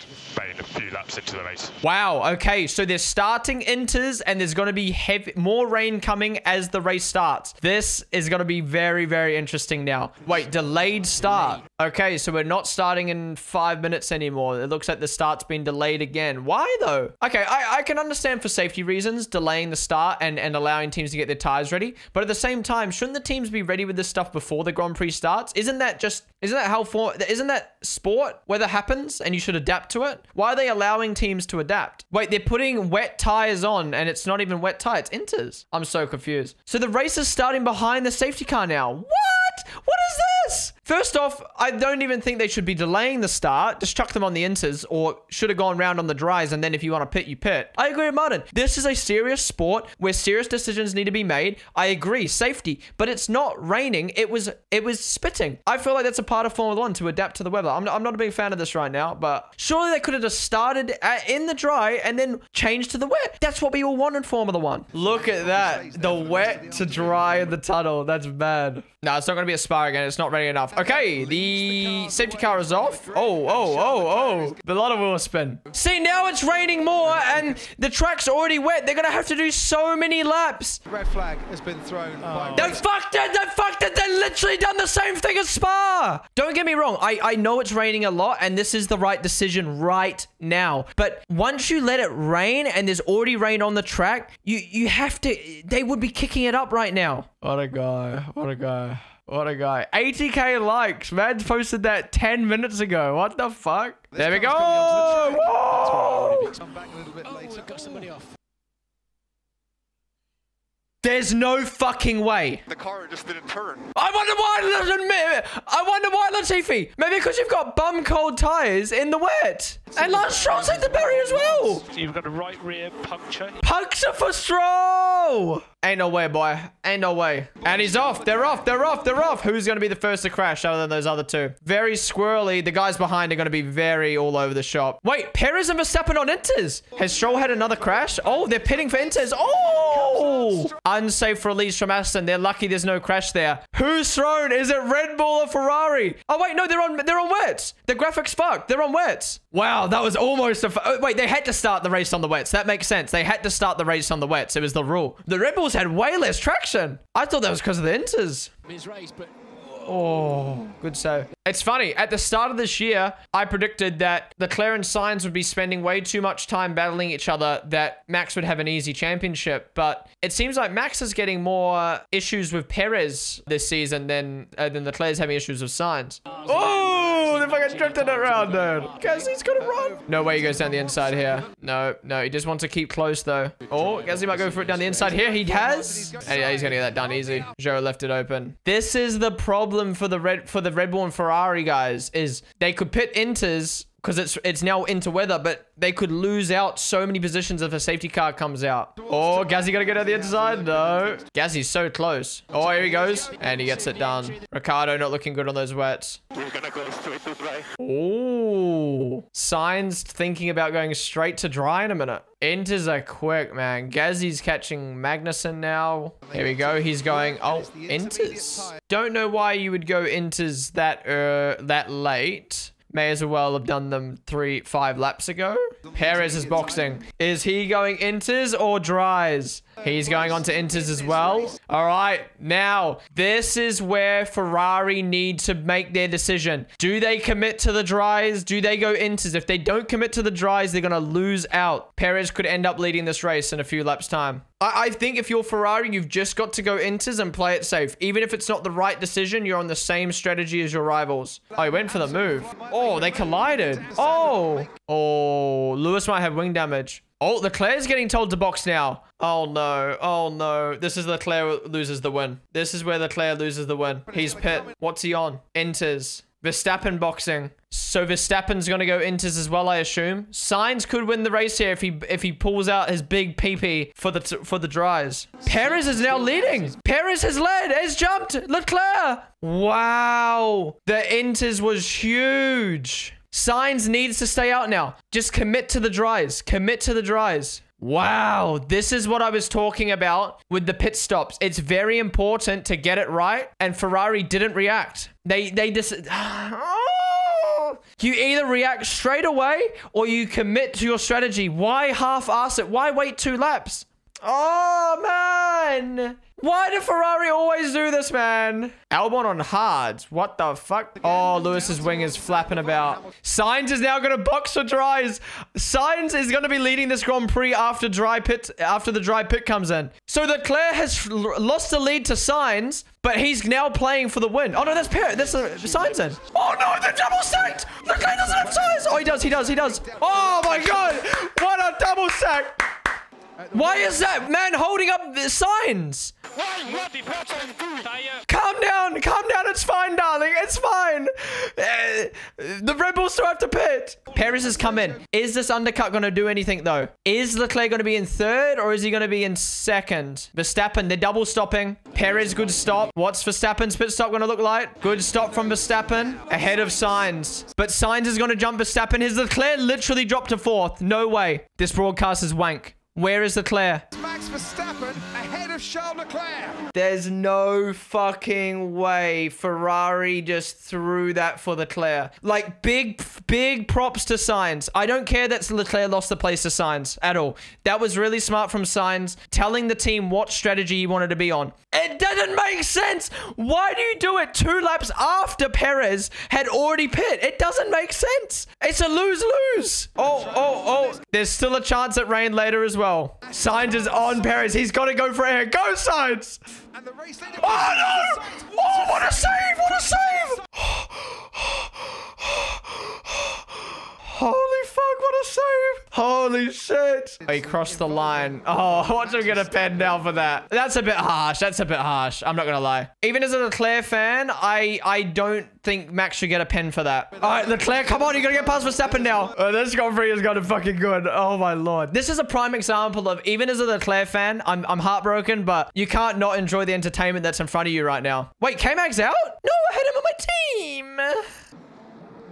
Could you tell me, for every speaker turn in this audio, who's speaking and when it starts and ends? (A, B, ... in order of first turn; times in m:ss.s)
0:00.2-0:01.8 A
0:01.8-1:20.8 B
1:05.0-1:07.5 C
1:10.8-1:14.6 C
1:20.9-1:22.8 C
1:22.3-1:22.6 D
1:22.5-1:46.6 B
1:44.1-1:45.5 C
1:46.6-1:47.9 C
1:47.9-1:48.3 A
1:51.0-1:52.6 B
1:52.7-1:53.9 A
1:53.9-2:01.9 B
2:01.8-2:03.6 D
2:03.6-2:38.5 B
2:39.6-3:26.2 B
2:59.6-3:01.4 C
3:05.2-3:07.4 C
3:19.0-3:21.2 C
3:26.4-3:27.7 A
3:27.8-5:32.8 B
3:36.3-3:38.8 C
3:46.0-3:46.9 C
3:49.8-3:51.2 C
4:11.9-4:14.7 C
4:24.1-4:24.7 C
5:28.3-5:30.7 C
5:33.4-5:33.9 C
5:33.5-5:36.2 B
5:36.4-5:38.2 A
5:38.2-6:03.8 B
6:03.9-6:06.7 C
6:06.7-6:36.4 B
6:36.8-6:40.3 C
6:37.3-7:11.3 B
6:47.2-6:49.8 C
6:57.6-6:59.2 C